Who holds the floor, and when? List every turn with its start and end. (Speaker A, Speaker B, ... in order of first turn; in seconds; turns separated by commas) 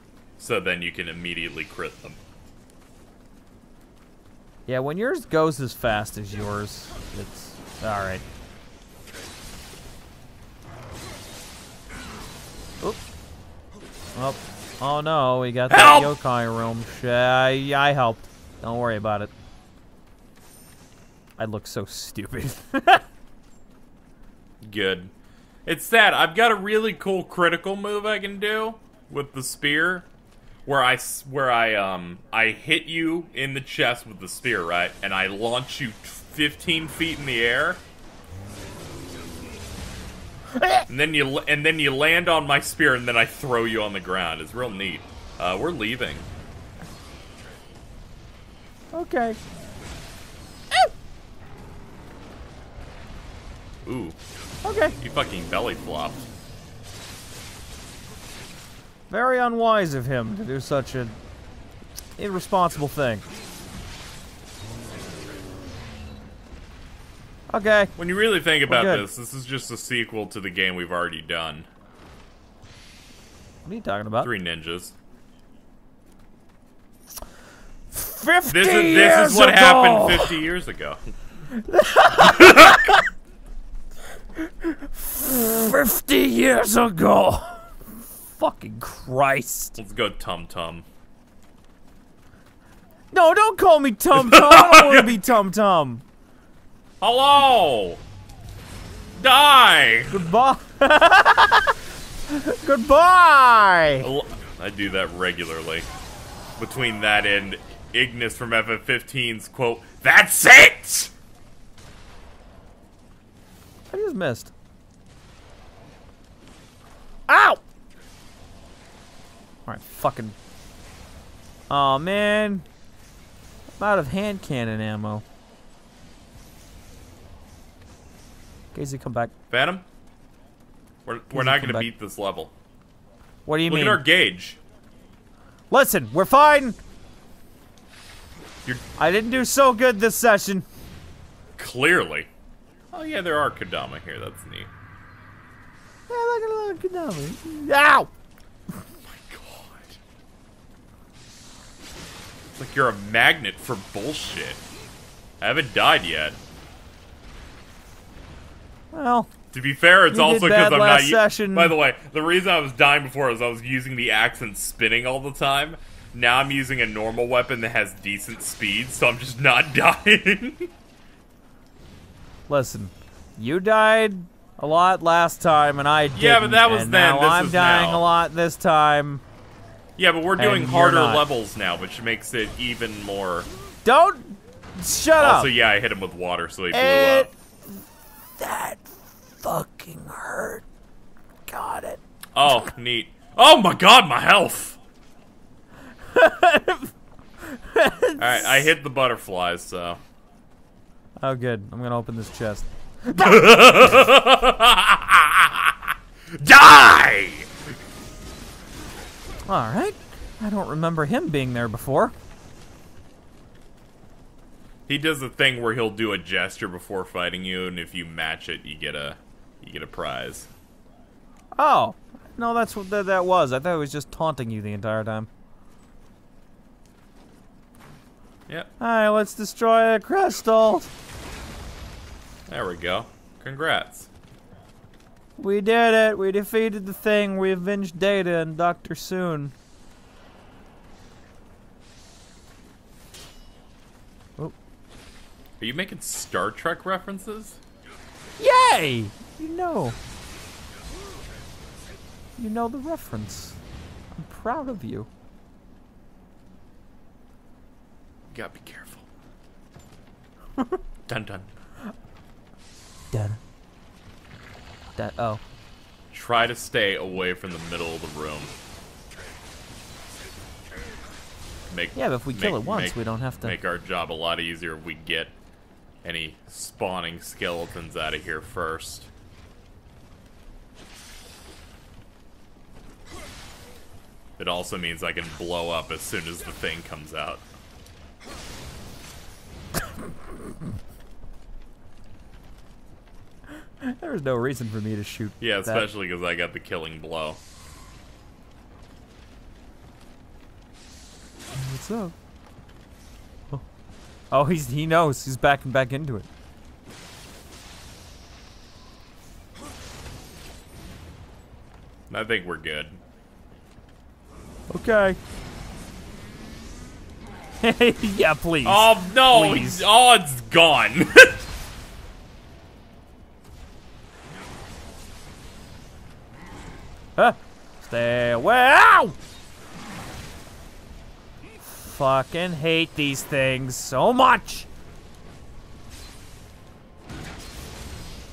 Speaker A: 0.4-2.2, Speaker B: 4.7-8.2, Speaker B: 14.2-19.3, Speaker A: 15.7-16.1, Speaker B: 21.4-23.0, Speaker A: 24.6-25.1, Speaker A: 25.6-30.1, Speaker A: 30.7-37.8, Speaker B: 40.6-40.9, Speaker A: 40.9-46.3, Speaker B: 48.9-49.4, Speaker A: 53.8-54.2, Speaker B: 54.6-55.0, Speaker A: 55.0-56.2, Speaker B: 59.1-61.2, Speaker B: 62.2-63.2, Speaker B: 67.5-67.9, Speaker A: 68.0-71.7, Speaker B: 68.7-69.0, Speaker B: 73.7-74.3, Speaker A: 74.2-75.0, Speaker B: 77.9-80.4, Speaker A: 78.5-81.0, Speaker B: 81.5-83.0, Speaker A: 82.2-82.9, Speaker B: 84.4-89.8, Speaker A: 89.8-90.8, Speaker B: 93.1-96.0, Speaker A: 94.2-95.2, Speaker A: 97.0-98.0, Speaker A: 99.2-100.3, Speaker B: 100.1-101.8, Speaker B: 102.3-104.1, Speaker A: 104.0-105.9, Speaker A: 106.6-111.1, Speaker B: 113.9-114.5, Speaker B: 117.3-117.6, Speaker B: 119.7-120.4, Speaker B: 121.7-122.7, Speaker B: 123.8-125.2, Speaker B: 128.7-129.3, Speaker A: 129.5-129.8, Speaker A: 131.1-132.5, Speaker B: 131.3-131.9, Speaker B: 133.5-134.0, Speaker A: 133.7-134.6, Speaker B: 135.7-136.8, Speaker B: 139.0-140.7, Speaker A: 141.6-142.3, Speaker A: 142.9-144.7, Speaker B: 146.1-148.1, Speaker A: 149.0-150.0, Speaker A: 152.5-154.6, Speaker A: 155.4-156.4, Speaker B: 158.9-159.3, Speaker A: 159.5-170.7, Speaker B: 160.1-161.7, Speaker B: 172.5-179.2, Speaker A: 176.1-178.1, Speaker A: 180.0-183.5, Speaker B: 180.4-181.2, Speaker B: 183.8-185.5, Speaker A: 185.2-187.3, Speaker B: 186.7-187.8, Speaker B: 188.4-190.6, Speaker B: 191.5-192.0, Speaker A: 192.3-194.8, Speaker B: 196.1-196.9, Speaker B: 197.4-198.7, Speaker A: 198.2-200.0, Speaker B: 201.2-204.1, Speaker A: 203.2-207.5, Speaker B: 209.5-212.1, Speaker A: 214.9-220.5, Speaker B: 221.6-225.3, Speaker B: 228.8-230.9, Speaker A: 232.5-234.1, Speaker B: 235.4-239.5, Speaker A: 245.6-247.6, Speaker B: 248.4-250.0, Speaker B: 252.4-253.6, Speaker B: 254.1-255.1, Speaker A: 258.3-259.1, Speaker A: 261.1-261.5, Speaker B: 263.1-263.4, Speaker B: 264.9-265.4, Speaker A: 266.1-268.5, Speaker A: 271.7-275.3, Speaker B: 272.0-273.6, Speaker A: 276.0-279.1, Speaker A: 284.4-287.4, Speaker B: 293.8-295.9, Speaker A: 295.4-297.4, Speaker B: 301.5-302.1, Speaker B: 304.3-306.3, Speaker A: 312.1-313.0, Speaker B: 314.7-315.2, Speaker B: 317.6-319.9, Speaker A: 318.6-321.5, Speaker B: 327.2-329.2, Speaker B: 331.6-334.7